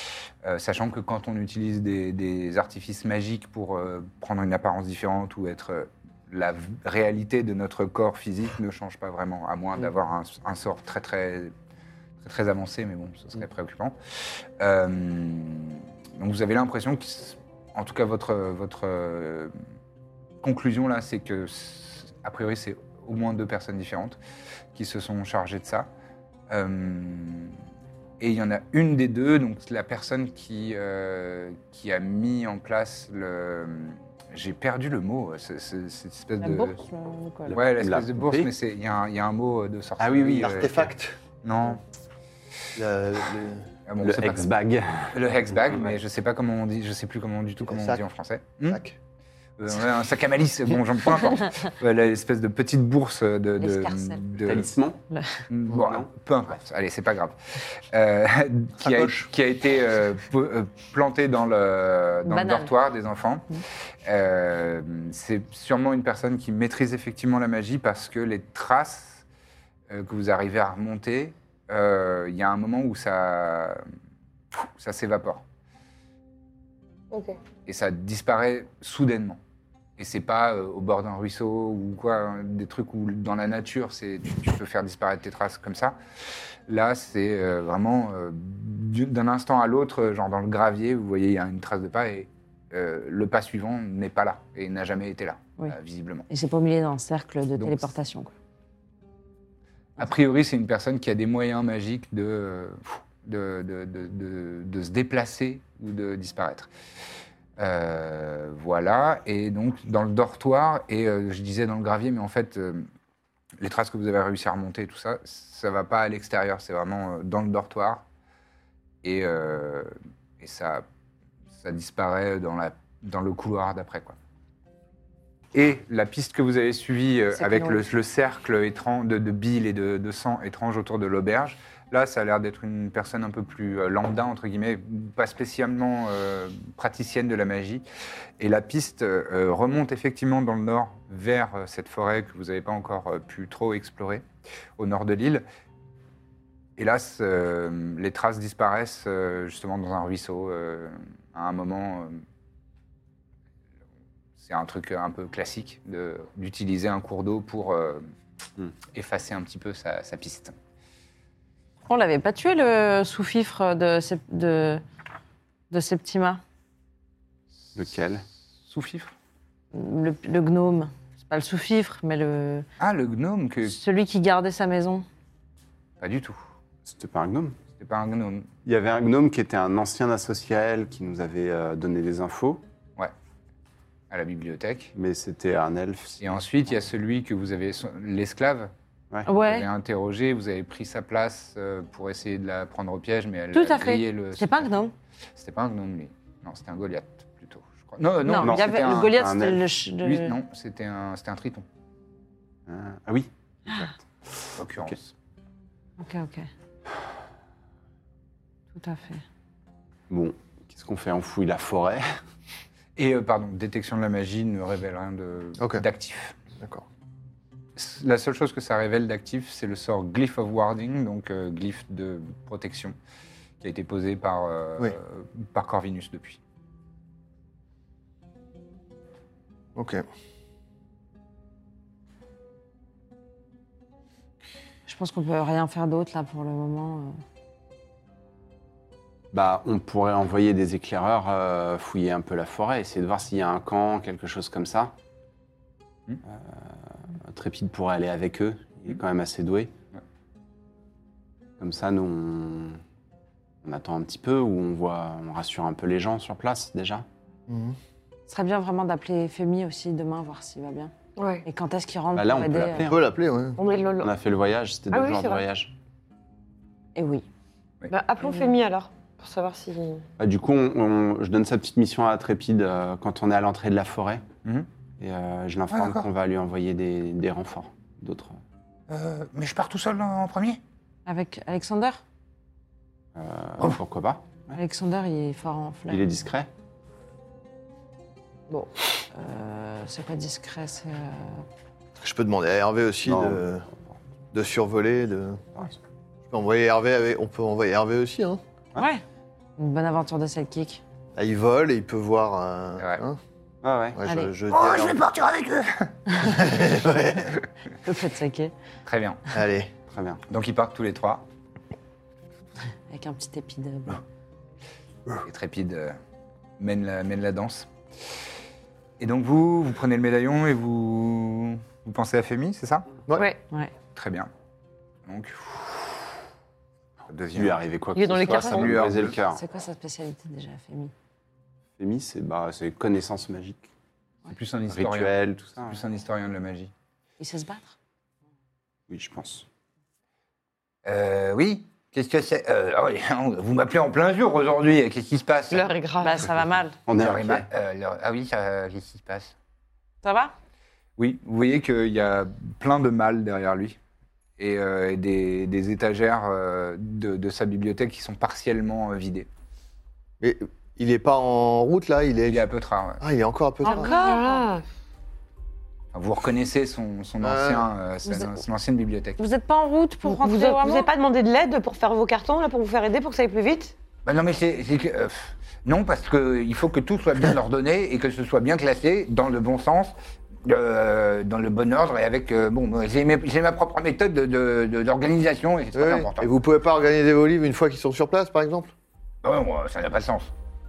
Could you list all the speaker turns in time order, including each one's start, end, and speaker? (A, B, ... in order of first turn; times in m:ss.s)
0:00.4-0:11.5 A
0:12.2-0:13.9 A
0:14.6-0:19.5 A
0:20.4-0:24.2 A
0:24.7-0:25.9 A
0:26.5-0:27.5 A
0:28.2-0:36.8 A
0:36.4-0:37.6 B
0:37.5-0:38.5 C
0:37.5-0:40.9 A
0:40.0-0:40.8 C
0:40.4-0:41.2 D
0:41.4-0:41.8 A
0:42.7-0:43.7 D
0:43.9-0:44.5 A
0:44.0-0:45.9 C
0:45.1-0:48.8 A
0:47.6-0:48.0 D
0:48.7-0:48.9 D
0:49.6-0:54.7 A
0:53.6-0:54.2 B
0:54.4-0:55.0 C
0:55.1-0:55.4 B
0:55.5-1:03.5 A
0:55.7-0:56.1 C
0:58.8-0:59.2 D
1:02.2-1:02.7 B
1:04.0-1:09.2 A
1:09.9-1:13.8 A
1:14.8-1:15.4 A
1:17.6-1:19.4 A
1:20.0-1:26.0 A
1:26.7-1:36.3 A
1:36.3-1:38.3 B
1:37.6-1:37.9 A
1:40.0-1:46.7 A
1:47.6-1:52.9 A
1:53.6-1:58.0 A
1:59.0-2:00.8 A
2:01.6-2:04.2 A
2:05.5-2:17.8 A
2:07.3-2:07.8 B
2:18.4-2:24.2 A
2:24.8-2:25.4 A
2:26.8-2:32.2 A
2:34.4-2:38.1 A
2:38.9-2:40.5 A
2:41.9-2:44.8 B
2:45.7-2:46.4 B
2:47.7-2:48.2 C
2:48.7-2:49.1 A
2:49.7-2:52.6 B
2:52.8-2:53.8 A
2:53.6-2:55.0 B
2:56.0-2:56.4 A
2:56.8-2:57.6 C
2:57.8-2:58.5 A
2:58.6-3:02.6 C
3:04.1-3:04.9 A
3:04.9-3:06.2 C
3:06.2-3:08.7 A
3:09.2-3:09.7 B
3:09.3-3:14.7 A
3:13.5-3:14.9 B
3:15.4-3:19.2 A
3:18.2-3:20.4 B
3:18.3-3:19.6 C
3:20.0-3:21.6 A
3:22.7-3:24.9 C
3:23.7-3:23.9 B
3:24.6-3:25.1 A
3:26.0-3:26.5 B
3:28.7-3:29.2 B
3:30.1-3:32.1 C
3:33.0-3:36.3 A
3:35.6-3:35.8 D
3:36.6-3:36.8 D
3:37.8-3:43.0 A
3:43.6-3:46.4 A
3:49.7-3:50.0 D
3:54.9-3:57.2 B
3:59.3-4:04.9 C
4:06.2-4:09.7 C
4:11.6-4:12.8 C
4:13.6-4:17.0 C
4:17.5-4:17.8 D
4:18.3-4:20.9 B
4:21.2-4:21.4 E
4:21.4-4:22.9 B
4:22.1-4:23.0 C
4:22.8-4:23.6 D
4:23.6-4:24.1 E
4:24.0-4:25.7 C
4:24.9-4:25.4 E
4:27.0-4:27.2 B
4:27.9-4:30.0 E
4:30.2-4:34.2 C
4:35.0-4:38.4 C
4:38.9-4:40.6 F
4:41.0-4:42.0 B
4:43.1-4:44.6 C
4:44.5-4:46.0 B
4:45.9-4:46.5 C
4:49.1-4:51.4 B
4:52.0-4:53.6 D
4:53.0-4:53.9 C
4:54.3-4:55.5 D
4:56.3-4:58.4 D
4:58.8-4:59.0 B
4:59.6-5:00.8 B
5:01.2-5:03.2 D
5:03.6-5:04.0 C
5:03.9-5:05.0 D
5:04.0-5:04.3 B
5:04.5-5:05.9 F
5:06.2-5:07.4 D
5:07.8-5:08.5 B
5:08.8-5:09.2 A
5:09.3-5:09.7 D
5:09.9-5:10.2 C
5:10.3-5:11.2 A
5:12.9-5:14.0 B
5:15.2-5:16.0 A
5:16.6-5:17.7 A
5:19.0-5:23.0 A
5:23.9-5:24.3 A
5:25.1-5:26.0 A
5:27.1-5:27.6 A
5:27.3-5:29.4 C
5:27.9-5:28.8 E
5:28.2-5:29.2 A
5:29.3-5:30.9 B
5:31.8-5:33.7 C
5:34.3-5:36.7 A
5:34.7-5:35.8 C
5:37.2-5:37.7 B
5:38.9-5:39.4 C
5:40.8-5:45.7 A
5:45.5-5:46.2 E
5:46.0-5:46.8 B
5:46.9-5:47.5 C
5:47.0-5:49.3 A
5:50.0-5:50.3 B
5:51.0-5:53.8 A
5:54.4-5:59.3 A
6:00.2-6:02.4 D
6:02.3-6:03.0 A
6:03.0-6:03.9 D
6:03.6-6:04.4 B
6:03.6-6:04.6 E
6:05.9-6:09.2 A
6:07.2-6:07.7 D
6:09.2-6:10.9 B
6:10.0-6:13.7 E
6:14.0-6:19.9 A
6:20.4-6:26.3 A
6:25.7-6:28.7 D
6:29.2-6:30.3 A